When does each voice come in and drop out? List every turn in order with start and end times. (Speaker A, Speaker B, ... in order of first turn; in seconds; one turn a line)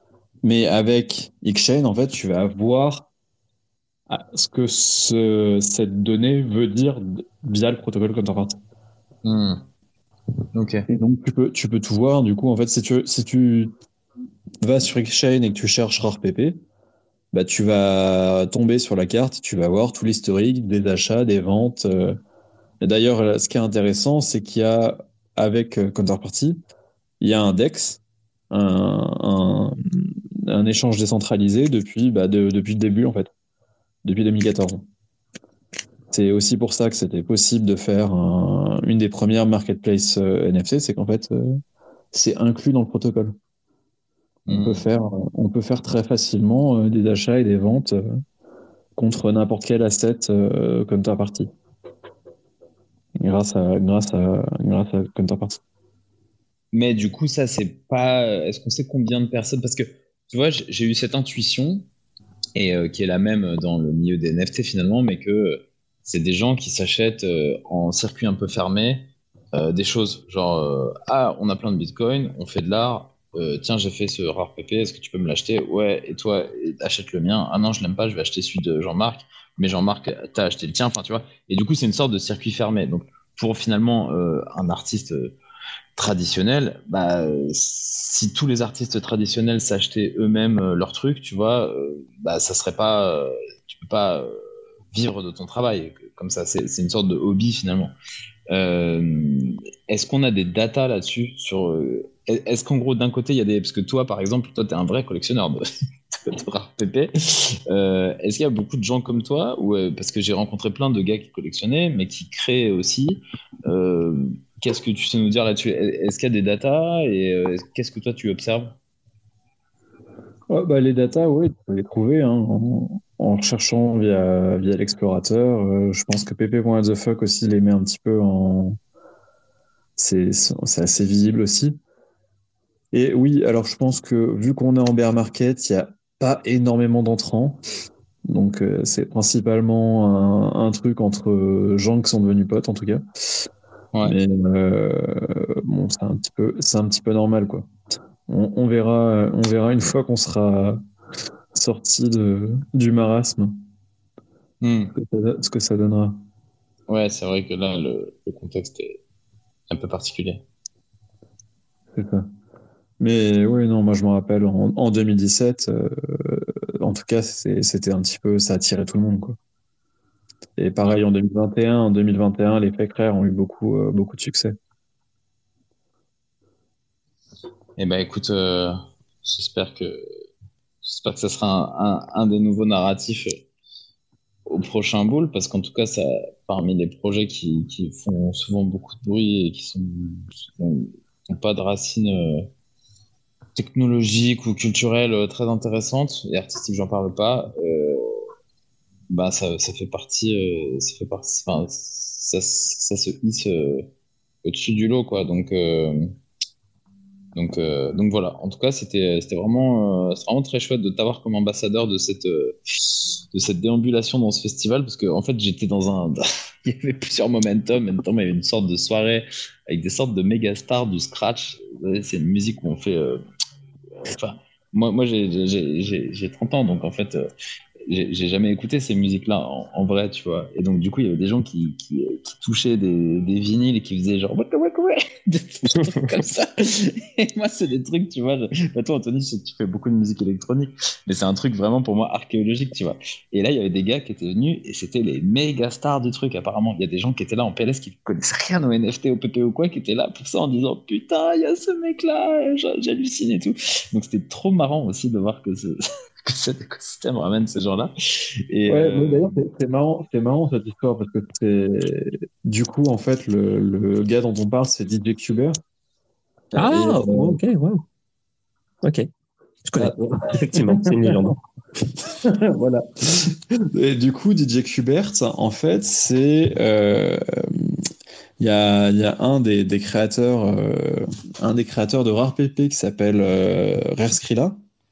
Speaker A: 0.4-3.1
Speaker A: 4.1-8.6
Speaker B: 9.2-9.7
Speaker B: 10.5-10.8
Speaker A: 10.9-13.7
Speaker A: 14.6-16.6
Speaker A: 17.3-22.2
Speaker A: 22.8-26.6
Speaker A: 27.2-33.3
Speaker A: 34.0-34.8
Speaker A: 36.1-41.6
Speaker A: 42.1-43.3
Speaker B: 44.5-44.9
Speaker A: 44.5-48.2
Speaker A: 49.0-51.5
Speaker A: 53.2-55.6
Speaker B: 56.7-61.9
Speaker B: 62.5-85.3
Speaker B: 86.0-94.4
Speaker B: 94.9-97.9
Speaker B: 98.5-105.6
Speaker B: 106.1-118.8
Speaker A: 120.5-128.8
Speaker A: 130.0-131.8
Speaker A: 132.9-137.6
Speaker A: 138.3-143.0
Speaker A: 144.0-147.7
Speaker A: 148.3-150.8
Speaker A: 151.5-153.6
Speaker B: 154.6-154.9
Speaker A: 154.9-156.2
Speaker B: 156.9-159.0
Speaker B: 159.7-160.4
Speaker A: 161.9-162.3
Speaker A: 163.0-169.4
Speaker A: 170.6-174.5
Speaker B: 177.8-180.0
Speaker B: 180.8-183.4
Speaker B: 184.5-192.5
Speaker B: 193.6-198.2
Speaker B: 199.1-203.9
Speaker B: 204.4-206.1
Speaker B: 207.3-223.2
Speaker B: 224.0-227.3
Speaker B: 227.9-257.9
Speaker C: 235.8-236.1
Speaker B: 258.5-259.4
Speaker A: 258.7-265.5
Speaker A: 266.5-267.4
Speaker C: 266.6-267.8
Speaker C: 268.8-269.1
Speaker C: 269.6-271.4
Speaker A: 269.8-271.2
Speaker A: 272.0-277.8
Speaker A: 278.4-284.6